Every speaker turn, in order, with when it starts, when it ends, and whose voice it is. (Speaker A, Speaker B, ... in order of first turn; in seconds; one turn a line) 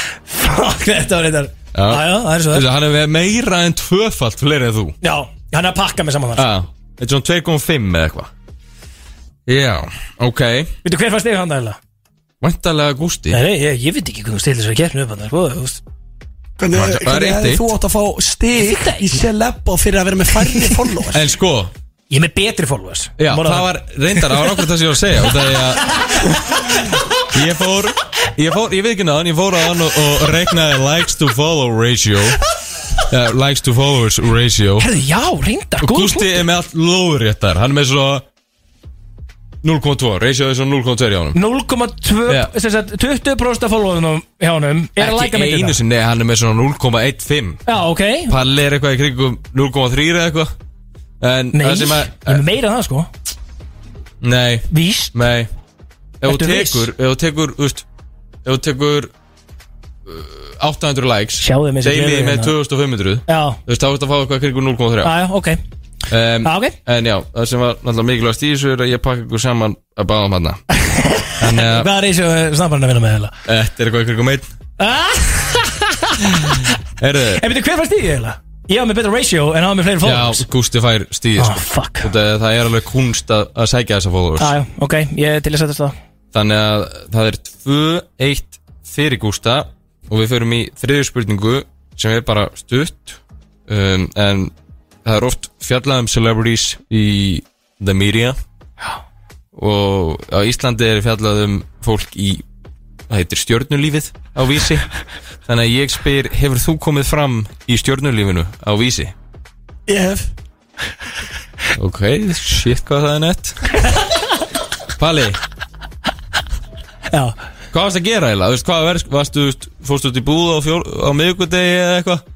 Speaker A: 0.3-2.6
Speaker B: 1.7-5.0
Speaker A: 5.0-6.5
Speaker B: 6.3-8.3
Speaker B: 9.5-10.7
Speaker A: 10.8-11.8
Speaker B: 12.4-13.4
Speaker A: 13.3-15.8
Speaker C: 16.6-21.2
Speaker B: 16.7-17.7
Speaker A: 18.6-19.2
Speaker B: 21.1-21.7
Speaker A: 22.1-24.4
Speaker B: 23.2-32.4
Speaker B: 33.1-34.9
Speaker A: 34.8-36.4
Speaker B: 35.8-38.2
Speaker B: 39.6-41.4
Speaker A: 41.3-45.8
Speaker B: 45.0-47.6
Speaker A: 47.6-48.4
Speaker B: 48.3-50.5
Speaker B: 51.2-52.4
Speaker A: 51.5-53.1
Speaker B: 54.2-55.5
Speaker A: 54.7-55.1
Speaker B: 56.2-57.8
Speaker A: 56.2-56.9
Speaker B: 58.4-59.1
Speaker B: 60.0-65.2
Speaker A: 61.4-62.5
Speaker A: 63.3-63.6
Speaker A: 65.0-65.6
Speaker B: 66.1-70.6
Speaker A: 66.4-66.8
Speaker A: 70.8-73.3
Speaker B: 71.4-71.9
Speaker B: 73.5-74.5
Speaker A: 74.8-76.7
Speaker B: 77.0-77.4
Speaker A: 77.3-80.4
Speaker B: 80.0-84.5
Speaker A: 81.4-82.1
Speaker A: 84.4-86.0
Speaker B: 86.3-94.5
Speaker B: 95.0-98.4
Speaker B: 99.5-102.4
Speaker B: 103.1-104.9
Speaker B: 105.5-109.1
Speaker C: 109.9-110.3
Speaker B: 111.7-113.6
Speaker B: 115.0-115.4
Speaker A: 117.1-117.3
Speaker B: 117.7-122.2